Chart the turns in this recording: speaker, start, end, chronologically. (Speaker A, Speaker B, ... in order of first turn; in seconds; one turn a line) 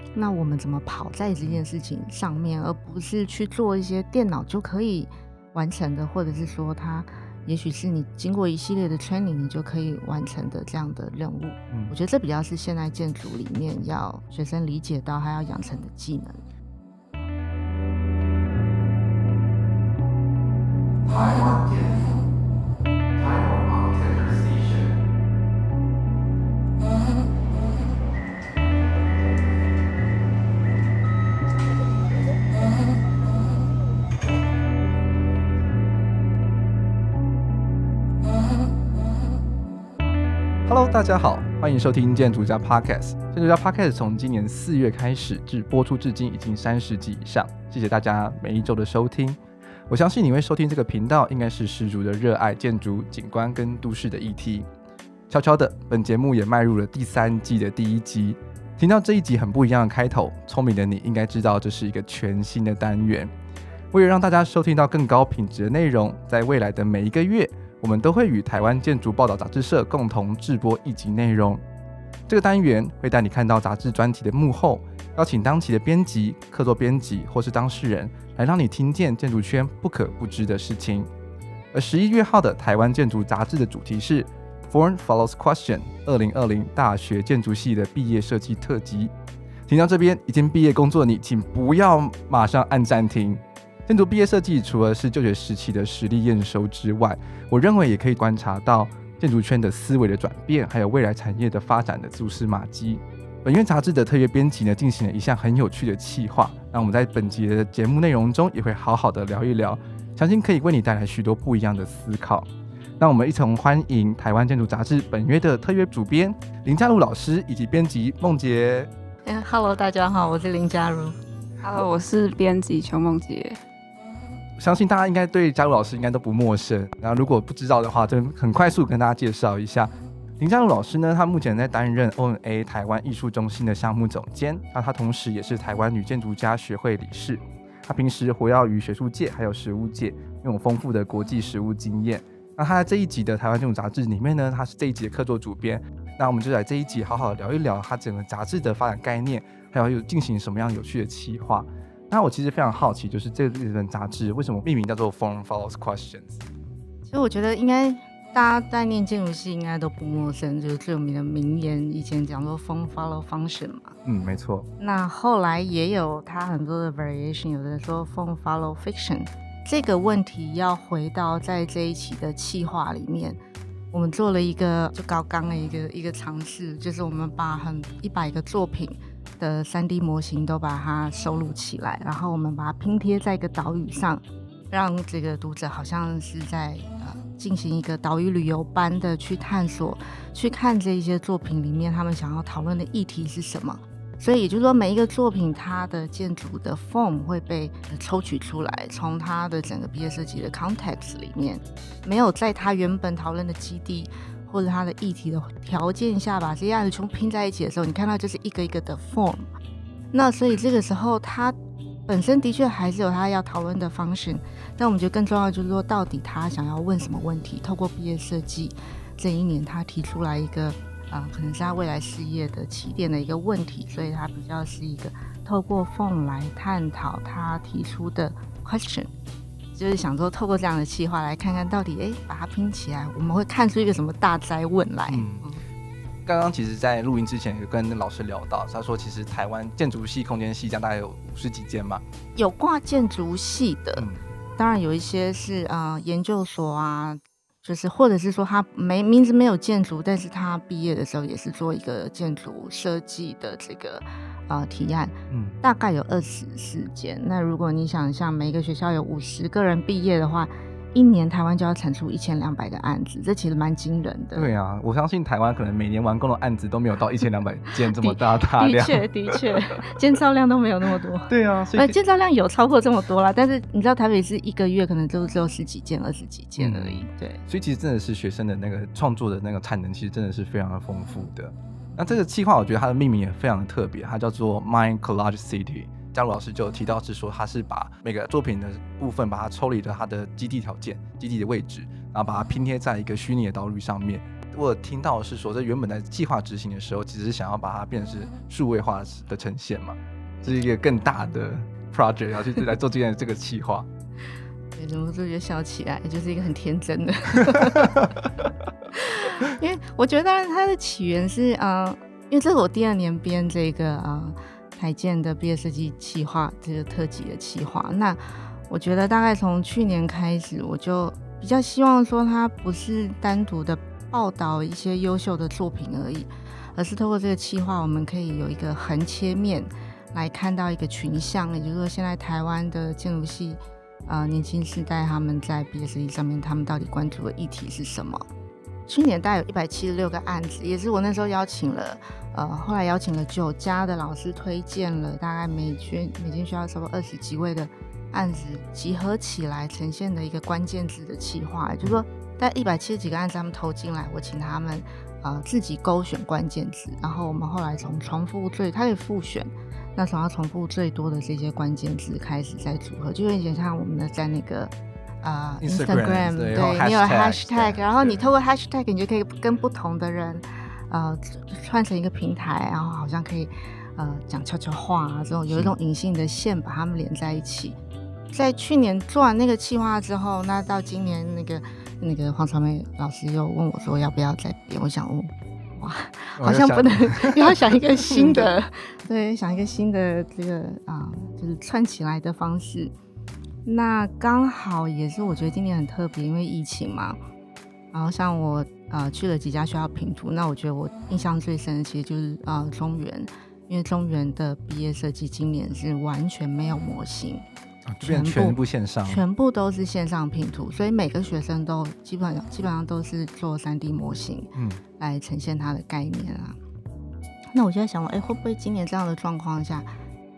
Speaker A: 0.1-16.4
Speaker B: 21.0-22.2
Speaker B: 23.1-25.0
Speaker B: 40.7-54.7
Speaker B: 55.3-63.3
Speaker B: 63.9-71.6
Speaker B: 72.3-81.1
Speaker B: 81.7-89.1
Speaker B: 89.7-112.5
Speaker B: 113.0-118.9
Speaker A: 119.2-121.2
Speaker C: 121.6-123.6
Speaker B: 124.6-156.3
Speaker A: 157.1-163.9
Speaker B: 164.0-164.7
Speaker A: 164.8-173.4
Speaker A: 173.9-209.5
Speaker A: 210.1-211.6
Speaker A: 212.1-229.1
Speaker A: 229.7-235.6
Speaker B: 235.1-235.5
Speaker B: 236.2-242.0
Speaker A: 242.3-244.0
Speaker B: 243.9-244.2
Speaker A: 244.6-264.5
Speaker B: 255.3-255.6
Speaker B: 264.3-269.1
Speaker A: 267.9-277.4
Speaker B: 271.3-271.9
Speaker B: 276.6-303.9
Speaker A: 304.8-308.0
Speaker B: 307.5-307.9
Speaker A: 308.9-338.2
Speaker A: 338.9-377.8
Speaker B: 365.6-367.8
Speaker A: 378.3-392.9
Speaker B: 386.4-388.5
Speaker A: 393.6-397.2
Speaker A: 397.9-407.4
Speaker B: 407.9-409.2
Speaker A: 408.0-416.6
Speaker B: 414.5-414.8
Speaker A: 417.5-419.9